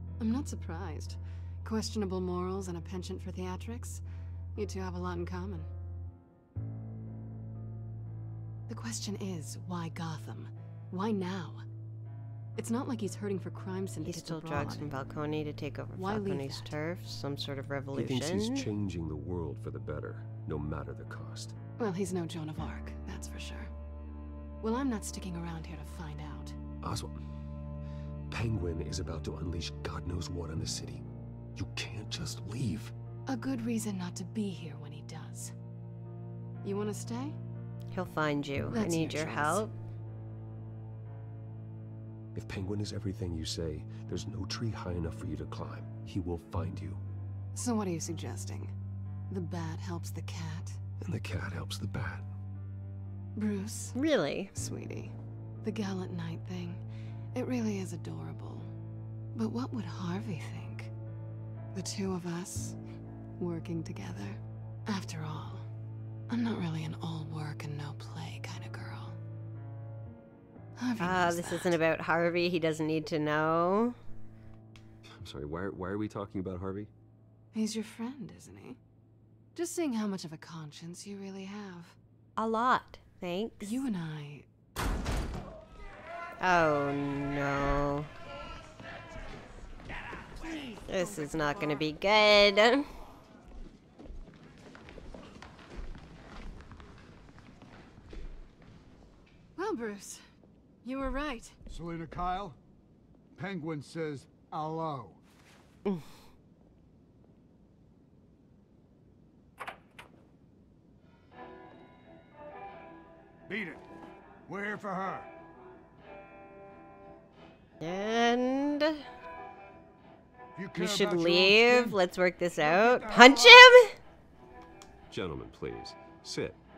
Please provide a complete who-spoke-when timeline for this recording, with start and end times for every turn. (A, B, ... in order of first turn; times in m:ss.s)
0:00.2-0:04.0 A
0:04.5-0:05.7 A
0:08.7-0:11.6 A
0:12.6-0:15.0 A
0:14.0-0:18.7 B
0:16.0-0:16.8 A
0:17.9-0:21.5 C
0:21.8-0:23.7 A
0:24.6-0:26.6 A
0:26.8-0:27.2 C
0:28.3-0:32.9 C
0:33.3-0:35.5 A
0:36.6-0:37.4 A
0:37.9-0:39.7 B
0:38.7-0:39.6 A
0:42.3-0:47.0 C
0:47.5-0:48.7 A
0:49.3-0:50.8 A
0:51.0-0:52.2 C
0:53.4-0:54.0 A
0:53.9-0:54.5 B
0:54.5-0:56.8 A
0:57.3-0:58.7 A
0:59.3-1:00.9 A
1:01.7-1:02.8 A
1:03.4-1:05.6 A
1:06.3-1:09.2 A
1:10.8-1:11.8 A
1:11.0-1:14.0 B
1:15.1-1:16.9 C
1:17.5-1:18.8 A
1:19.5-1:22.0 A
1:22.4-1:23.8 B
1:23.6-1:24.5 A
1:26.4-1:28.1 B
1:30.5-1:31.8 A
1:30.9-1:32.9 B
1:39.6-1:40.2 A
1:40.8-1:41.6 A
1:41.7-1:42.6 D
1:43.4-1:45.2 D
1:53.5-1:53.8 D
1:54.5-1:55.3 D
1:57.8-1:59.0 B
2:00.6-2:02.0 D
2:00.7-2:03.9 B
2:02.5-2:03.7 D
2:05.1-2:06.6 C